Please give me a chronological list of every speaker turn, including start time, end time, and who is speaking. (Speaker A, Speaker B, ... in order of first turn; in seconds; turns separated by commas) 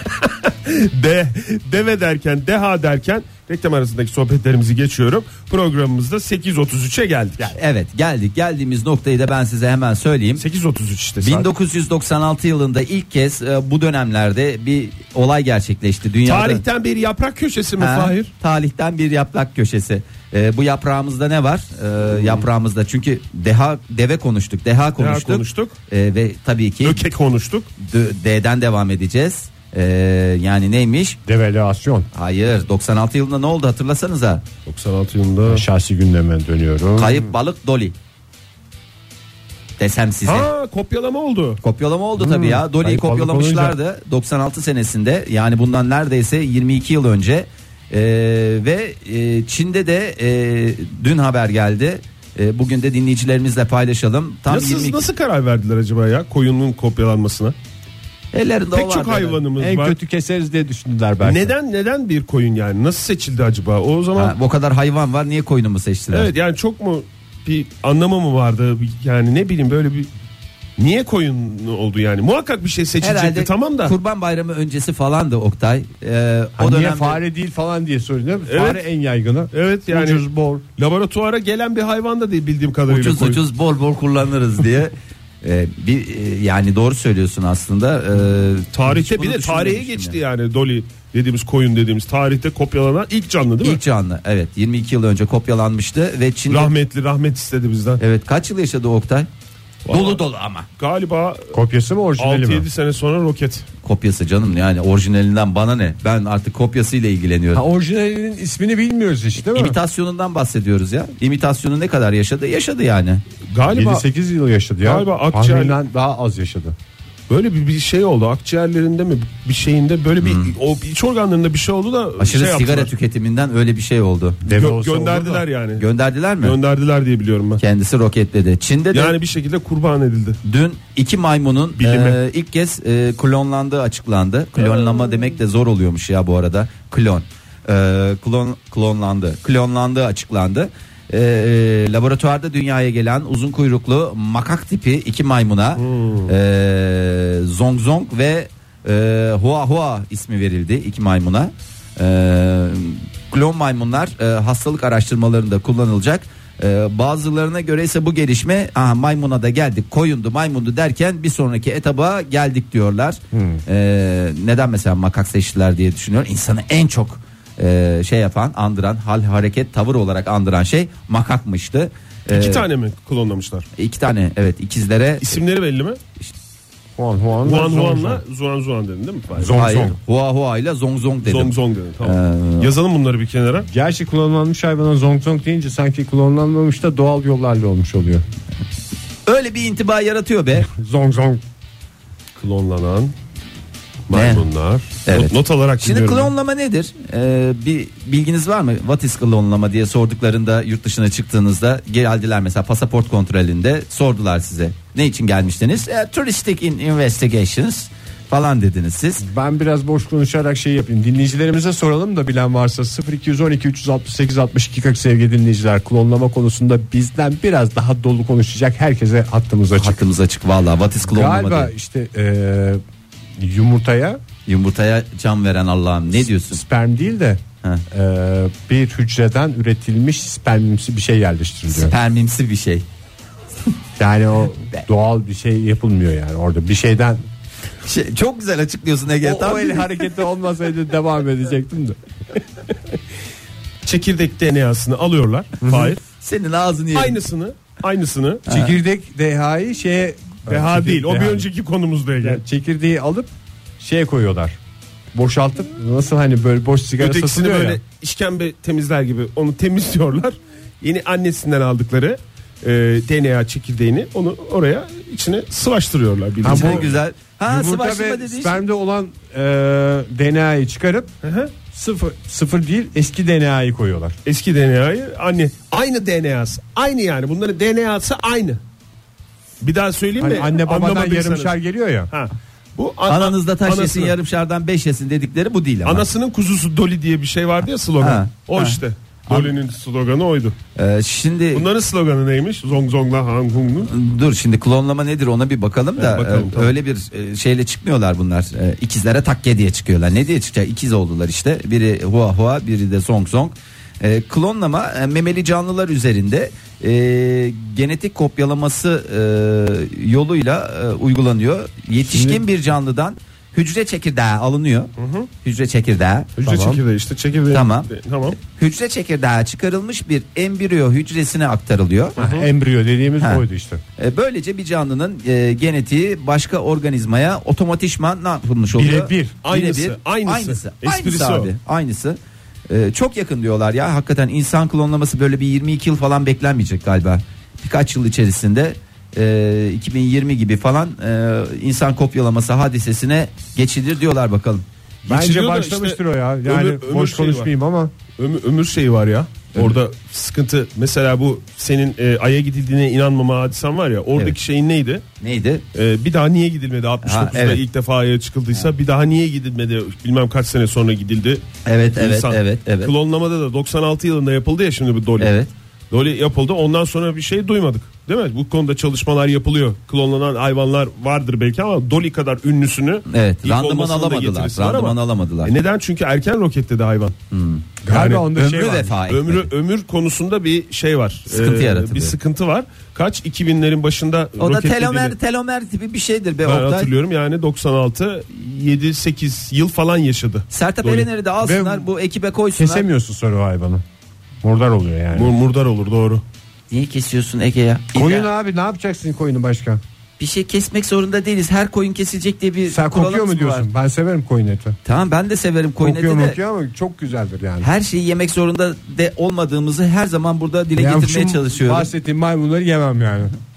Speaker A: 0.2-7.6, Speaker B: 7.5-10.4, Speaker A: 10.4-11.5, Speaker B: 11.2-16.6, Speaker A: 16.3-18.3, Speaker B: 17.8-27.1, Speaker A: 22.2-22.4, Speaker A: 25.0-25.8, Speaker A: 26.8-27.7, Speaker B: 27.8-31.2, Speaker C: 31.3-32.1, Speaker B: 32.1-34.5, Speaker A: 34.7-35.6, Speaker C: 35.5-37.3, Speaker B: 37.0-38.0, Speaker B: 39.8-40.5, Speaker A: 40.3-41.6, Speaker B: 41.6-55.0, Speaker C: 42.2-43.8, Speaker A: 54.5-57.6, Speaker B: 58.3-59.4, Speaker A: 58.7-60.0, Speaker C: 59.6-61.5, Speaker A: 61.2-64.4, Speaker B: 64.2-66.3, Speaker A: 66.1-70.1, Speaker A: 70.8-73.9, Speaker B: 73.0-77.2, Speaker C: 76.6-80.7, Speaker A: 78.5-78.8, Speaker A: 79.5-80.2, Speaker A: 80.8-83.4, Speaker B: 82.9-90.2, Speaker A: 88.7-93.8, Speaker B: 93.6-96.7, Speaker A: 96.5-98.0, Speaker B: 98.0-99.3, Speaker A: 99.8-100.2, Speaker B: 99.9-100.7, Speaker A: 100.8-101.5, Speaker C: 101.5-102.7, Speaker A: 102.2-103.7, Speaker B: 103.8-107.6, Speaker C: 107.5-109.8, Speaker B: 109.4-113.2, Speaker A: 113.5-114.0, Speaker C: 113.7-116.8, Speaker A: 114.8-115.8, Speaker A: 117.3-122.9, Speaker B: 120.2-120.5, Speaker B: 122.2-124.4, Speaker C: 124.5-125.5, Speaker A: 124.5-125.8, Speaker B: 125.8-126.6, Speaker A: 126.4-127.6, Speaker B: 127.6-129.2, Speaker A: 128.9-130.4, Speaker B: 130.4-172.7, Speaker A: 131.8-132.2, Speaker A: 145.8-146.3, Speaker C: 163.3-163.6, Speaker A: 172.3-173.7, Speaker B: 173.8-175.4, Speaker A: 175.2-176.0, Speaker C: 177.0-178.2, Speaker A: 177.4-179.6, Speaker C: 179.4-180.0, Speaker B: 179.5-182.7, Speaker A: 181.2-183.7, Speaker C: 183.7-188.2, Speaker B: 189.3-190.7, Speaker C: 190.7-191.4, Speaker A: 192.4-193.1, Speaker A: 194.1-196.3, Speaker B: 194.1-194.4, Speaker B: 195.1-209.2, Speaker C: 209.2-220.0, Speaker B: 219.8-221.7, Speaker C: 221.1-222.8, Speaker C: 223.4-224.2, Speaker B: 224.5-226.6, Speaker C: 226.5-231.9, Speaker B: 231.7-232.9, Speaker C: 234.0-237.2, Speaker B: 237.8-240.1, Speaker C: 239.2-242.0, Speaker A: 243.8-246.0, Speaker C: 245.6-246.0, Speaker B: 246.2-247.2, Speaker A: 246.9-248.4, Speaker B: 248.5-248.8, Speaker C: 248.5-251.5, Speaker A: 250.5-252.4, Speaker C: 252.2-254.6, Speaker C: 255.1-257.8, Speaker A: 257.0-266.9, Speaker C: 266.4-266.9, Speaker B: 266.4-268.6, Speaker C: 267.5-271.1, Speaker A: 271.2-271.5, Speaker C: 271.7-274.2, Speaker A: 274.3-278.6, Speaker A: 279.6-281.5, Speaker C: 280.2-282.1, Speaker A: 282.1-284.1, Speaker B: 283.1-286.1, Speaker A: 285.9-290.6, Speaker B: 288.0-289.6, Speaker B: 290.8-291.7, Speaker A: 291.5-293.9, Speaker B: 293.9-314.9, Speaker A: 296.0-296.8, Speaker C: 312.0-312.4, Speaker A: 315.0-315.3, Speaker B: 315.4-316.3, Speaker C: 316.4-316.8, Speaker A: 316.4-318.4, Speaker B: 317.5-322.2, Speaker A: 322.2-322.5, Speaker C: 322.2-323.8, Speaker B: 324.0-344.6, Speaker C: 328.7-329.4, Speaker A: 329.4-331.5, Speaker A: 345.1-347.5, Speaker C: 345.1-347.9, Speaker A: 348.2-355.0, Speaker B: 355.2-355.6, Speaker A: 355.7-365.3, Speaker B: 357.0-357.6, Speaker B: 361.7-362.9, Speaker B: 365.2-365.5, Speaker A: 365.9-377.2, Speaker B: 373.1-375.5, Speaker B: 377.3-377.7, Speaker C: 377.8-378.9, Speaker A: 377.9-378.3, Speaker B: 378.3-379.5, Speaker A: 379.1-385.1, Speaker B: 381.3-382.1, Speaker B: 384.4-386.9, Speaker A: 386.4-391.1, Speaker B: 390.5-392.9, Speaker C: 391.4-391.9, Speaker C: 392.6-393.8, Speaker C: 394.4-395.3, Speaker A: 395.1-396.2, Speaker B: 396.7-398.3, Speaker C: 397.9-399.8, Speaker B: 400.2-403.7, Speaker C: 402.7-404.8, Speaker B: 404.9-406.4, Speaker C: 405.8-407.7, Speaker B: 407.6-411.9, Speaker C: 410.8-413.3